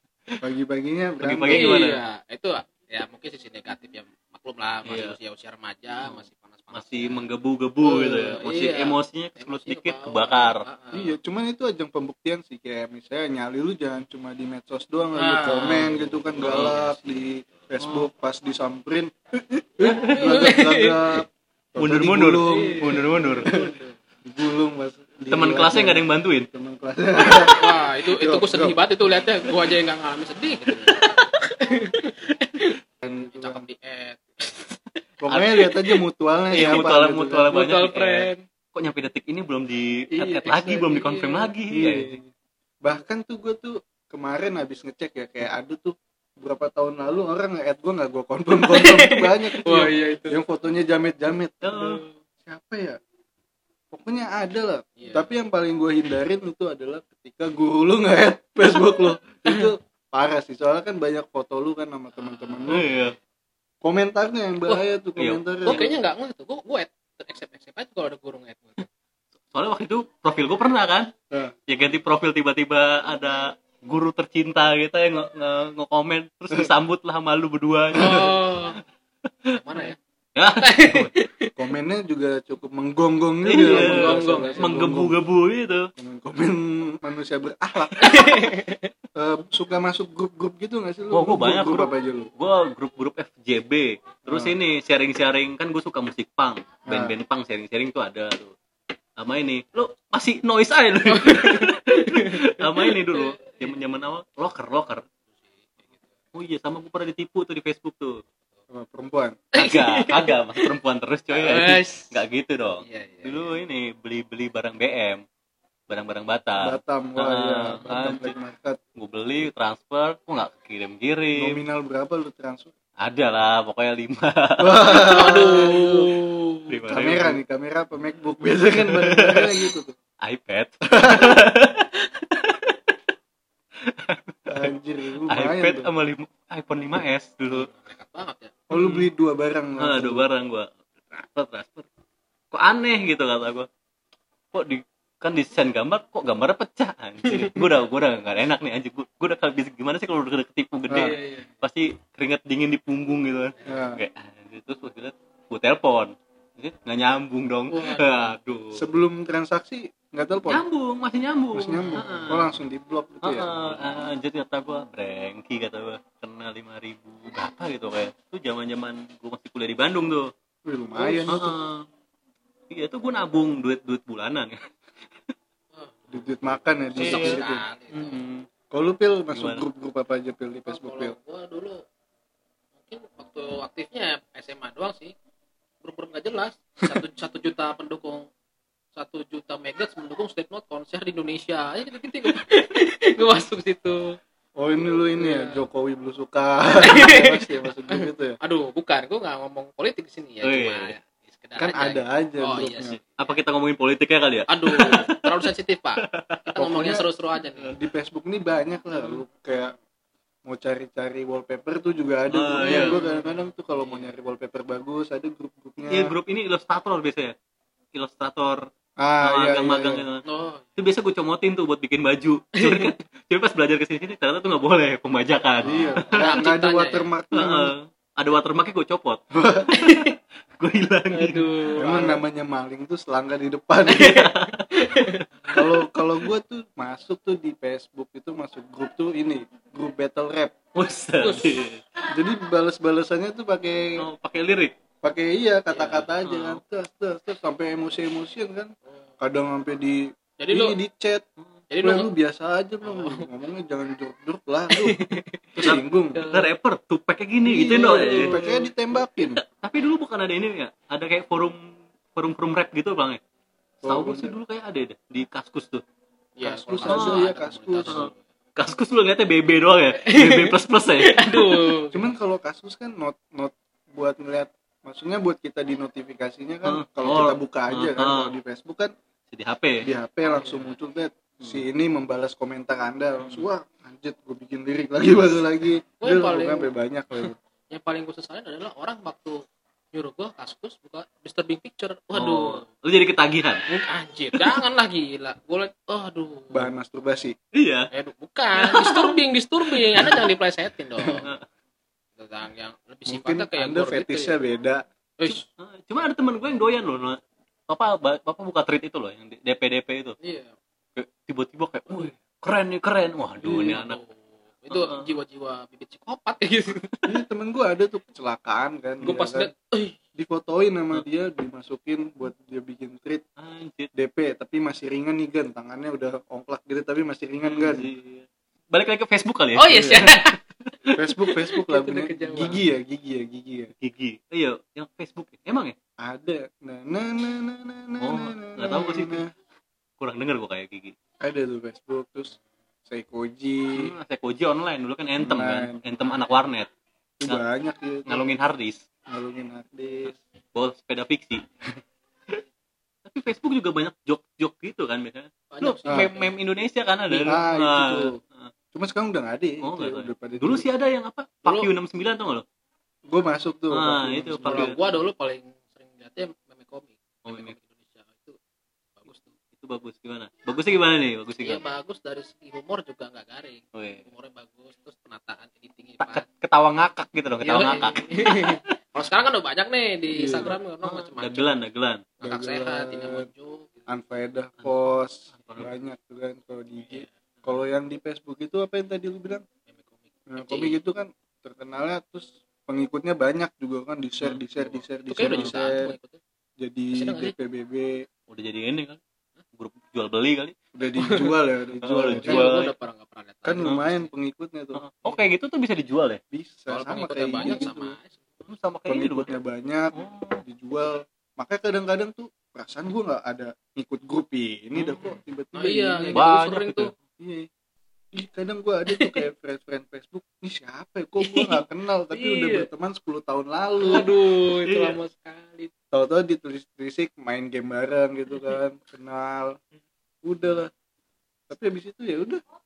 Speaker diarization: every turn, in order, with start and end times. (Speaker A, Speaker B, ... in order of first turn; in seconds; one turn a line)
Speaker A: 0.4-1.7
Speaker B: 1.2-2.0
Speaker C: 1.5-7.2
Speaker B: 4.8-5.2
Speaker B: 6.0-10.6
Speaker C: 7.8-11.2
Speaker A: 10.9-28.8
Speaker C: 15.1-17.1
Speaker B: 16.4-16.8
Speaker B: 17.8-18.1
Speaker B: 19.8-20.5
Speaker C: 20.2-21.2
Speaker B: 21.8-23.5
Speaker C: 22.5-23.9
Speaker B: 25.3-26.5
Speaker C: 27.5-34.7
Speaker B: 30.9-31.2
Speaker A: 33.0-33.7
Speaker A: 35.2-37.5
Speaker B: 35.3-35.6
Speaker C: 36.5-36.9
Speaker B: 36.5-42.2
Speaker C: 37.5-38.4
Speaker C: 40.1-41.5
Speaker A: 41.7-42.3
Speaker A: 42.8-51.7
Speaker C: 48.6-50.4
Speaker B: 51.6-52.0
Speaker C: 51.7-52.2
Speaker A: 52.5-53.0
Speaker A: 53.9-62.9
Speaker C: 55.0-55.3
Speaker C: 62.1-63.1
Speaker B: 62.6-63.1
Speaker A: 63.8-65.9
Speaker B: 65.2-65.9
Speaker C: 65.6-68.8
Speaker B: 69.5-71.1
Speaker B: 71.7-78.7
Speaker C: 77.9-78.8
Speaker C: 79.5-80.0
Speaker B: 79.7-81.1
Speaker C: 80.6-81.5
Speaker A: 81.5-85.2
Speaker B: 83.5-85.9
Speaker C: 83.6-84.8
Speaker A: 86.0-88.2
Speaker B: 87.9-88.3
Speaker C: 88.0-88.9
Speaker A: 89.2-92.3
Speaker B: 91.1-98.5
Speaker A: 94.3-94.5
Speaker A: 96.9-97.1
Speaker B: 99.2-105.0
Speaker C: 101.1-103.7
Speaker C: 105.3-106.1
Speaker B: 106.3-108.1
Speaker A: 108.7-109.4
Speaker C: 109.5-110.7
Speaker B: 109.6-115.2
Speaker C: 111.3-112.2
Speaker C: 112.8-113.5
Speaker B: 115.9-118.3
Speaker A: 116.6-118.8
Speaker B: 119.0-121.6
Speaker A: 121.3-122.7
Speaker B: 123.0-125.5
Speaker A: 124.6-126.1
Speaker C: 125.1-126.7
Speaker B: 126.7-127.4
Speaker A: 126.8-129.9
Speaker B: 128.8-132.8
Speaker A: 131.0-131.4
Speaker B: 133.8-134.5
Speaker A: 134.5-135.9
Speaker B: 135.2-137.7
Speaker C: 137.5-138.5
Speaker A: 138.7-140.3
Speaker B: 138.7-139.1
Speaker B: 139.8-141.9
Speaker B: 142.5-143.7
Speaker B: 144.5-158.8
Speaker C: 147.3-147.6
Speaker A: 150.9-151.1
Speaker C: 150.9-151.5
Speaker C: 153.6-153.9
Speaker A: 153.7-154.0
Speaker C: 157.7-158.3
Speaker A: 158.7-160.6
Speaker B: 160.5-162.5
Speaker A: 161.5-163.9
Speaker B: 163.2-170.3
Speaker A: 170.7-171.5
Speaker C: 170.9-171.4
Speaker B: 171.3-171.8
Speaker B: 172.7-174.6
Speaker C: 175.7-176.2
Speaker A: 176.1-177.6
Speaker B: 176.9-178.5
Speaker C: 177.0-178.2
Speaker A: 178.7-181.2
Speaker B: 179.3-179.6
Speaker C: 180.7-181.8
Speaker C: 182.8-185.1
Speaker C: 185.8-188.3
Speaker C: 188.9-194.2
Speaker A: 194.6-198.4
Speaker C: 195.1-195.6
Speaker C: 196.8-203.4
Speaker B: 200.4-200.9
Speaker A: 201.6-203.0
Speaker B: 203.0-205.4
Speaker C: 204.5-207.8
Speaker B: 206.1-206.4
Speaker A: 206.6-207.1
Speaker A: 207.7-209.7
Speaker A: 210.5-216.1
Speaker B: 212.3-213.0
Speaker C: 212.6-214.1
Speaker B: 215.9-217.3
Speaker B: 217.9-218.6
Speaker A: 219.0-220.0
Speaker B: 219.2-220.2
Speaker C: 220.2-220.7
Speaker B: 220.8-226.3
Speaker C: 222.6-222.9
Speaker A: 225.6-227.7
Speaker C: 225.7-227.1
Speaker B: 227.3-229.2
Speaker A: 229.3-229.7
Speaker C: 229.7-230.2
Speaker B: 229.8-230.0
Speaker B: 230.6-231.9
Speaker C: 231.1-232.2
Speaker A: 231.8-234.1
Speaker B: 233.9-235.6
Speaker C: 233.9-235.6
Speaker A: 235.5-240.5
Speaker B: 240.7-241.8
Speaker C: 241.2-241.6
Speaker A: 242.1-243.8
Speaker B: 244.0-244.7
Speaker A: 245.0-251.2
Speaker B: 245.7-246.6
Speaker C: 248.8-249.1
Speaker C: 250.4-250.8
Speaker C: 251.7-252.1
Speaker A: 251.8-255.0
Speaker C: 252.8-253.3
Speaker C: 254.7-256.5
Speaker A: 255.5-256.2
Speaker B: 255.6-258.3
Speaker A: 257.4-259.4
Speaker C: 257.6-258.7
Speaker B: 259.3-263.2
Speaker A: 263.8-264.4
Speaker B: 263.8-265.8
Speaker C: 266.4-268.2
Speaker A: 266.4-268.0
Speaker B: 266.9-267.2
Speaker B: 267.9-271.8
Speaker C: 269.9-272.1
Speaker A: 271.9-278.9
Speaker B: 276.6-278.3
Speaker B: 279.3-279.9
Speaker A: 279.8-287.4
Speaker C: 280.3-280.7
Speaker B: 283.2-283.4
Speaker C: 286.0-286.7
Speaker C: 287.7-289.4
Speaker C: 289.9-292.6
Speaker B: 292.1-293.7
Speaker C: 293.7-296.7
Speaker B: 294.3-294.6
Speaker A: 296.5-297.4
Speaker B: 297.5-297.9
Speaker C: 297.9-301.2
Speaker B: 298.6-299.2
Speaker B: 299.9-300.2
Speaker B: 301.0-301.4
Speaker C: 302.1-304.5
Speaker A: 303.1-304.8
Speaker C: 305.2-305.4
Speaker B: 305.2-310.2
Speaker C: 310.2-310.5
Speaker B: 310.9-314.0
Speaker C: 313.4-316.9
Speaker B: 314.7-315.1
Speaker A: 317.1-319.5
Speaker C: 319.0-320.0
Speaker A: 320.1-323.2
Speaker B: 323.4-323.9
Speaker A: 323.9-327.9
Speaker B: 327.4-330.9
Speaker C: 329.5-332.6
Speaker A: 329.7-330.0
Speaker A: 330.9-333.7
Speaker B: 333.8-335.7
Speaker A: 336.0-339.3
Speaker B: 338.0-339.2
Speaker B: 340.0-340.9
Speaker A: 341.2-342.3
Speaker A: 342.9-343.9
Speaker B: 343.8-346.7
Speaker A: 345.2-345.8
Speaker A: 347.2-348.3
Speaker B: 348.1-348.8
Speaker A: 349.1-350.1
Speaker B: 350.5-351.4
Speaker B: 353.1-358.5
Speaker C: 355.5-356.3
Speaker A: 355.8-356.1
Speaker A: 357.1-358.1
Speaker A: 358.7-360.7
Speaker B: 359.6-362.4
Speaker C: 361.4-361.7
Speaker A: 363.1-364.8
Speaker B: 363.7-364.8
Speaker C: 364.4-368.4
Speaker B: 367.2-367.6
Speaker C: 369.0-369.3
Speaker B: 369.6-371.6
Speaker C: 371.4-376.2
Speaker B: 373.7-374.0
Speaker B: 376.0-378.6
Speaker C: 377.4-381.5
Speaker A: 380.1-380.5
Speaker B: 380.2-382.1
Speaker C: 382.2-383.9
Speaker A: 382.2-383.3
Speaker A: 383.9-389.4
Speaker B: 384.6-385.7
Speaker C: 389.7-390.8
Speaker A: 390.3-395.9
Speaker B: 394.2-395.5
Speaker C: 395.1-396.2
Speaker A: 396.6-397.9
Speaker C: 396.9-397.3
Speaker B: 398.3-399.0
Speaker B: 399.5-400.5
Speaker A: 400.7-402.6
Speaker C: 400.9-401.3
Speaker B: 401.8-402.7
Speaker C: 402.1-404.1
Speaker A: 403.4-404.9
Speaker B: 403.6-403.8
Speaker B: 404.7-406.2
Speaker A: 406.3-407.9
Speaker C: 406.7-408.4
Speaker B: 407.4-407.7
Speaker B: 408.4-409.3
Speaker A: 408.9-416.3
Speaker B: 409.9-410.4
Speaker B: 414.7-415.2
Speaker C: 415.5-416.9
Speaker B: 416.1-416.9
Speaker A: 417.2-417.5
Speaker A: 418.1-424.1
Speaker C: 418.9-419.2
Speaker C: 421.3-421.6
Speaker C: 422.1-422.7
Speaker C: 423.8-425.7
Speaker B: 423.9-425.0
Speaker A: 425.9-429.5
Speaker A: 430.3-430.7
Speaker A: 431.5-432.4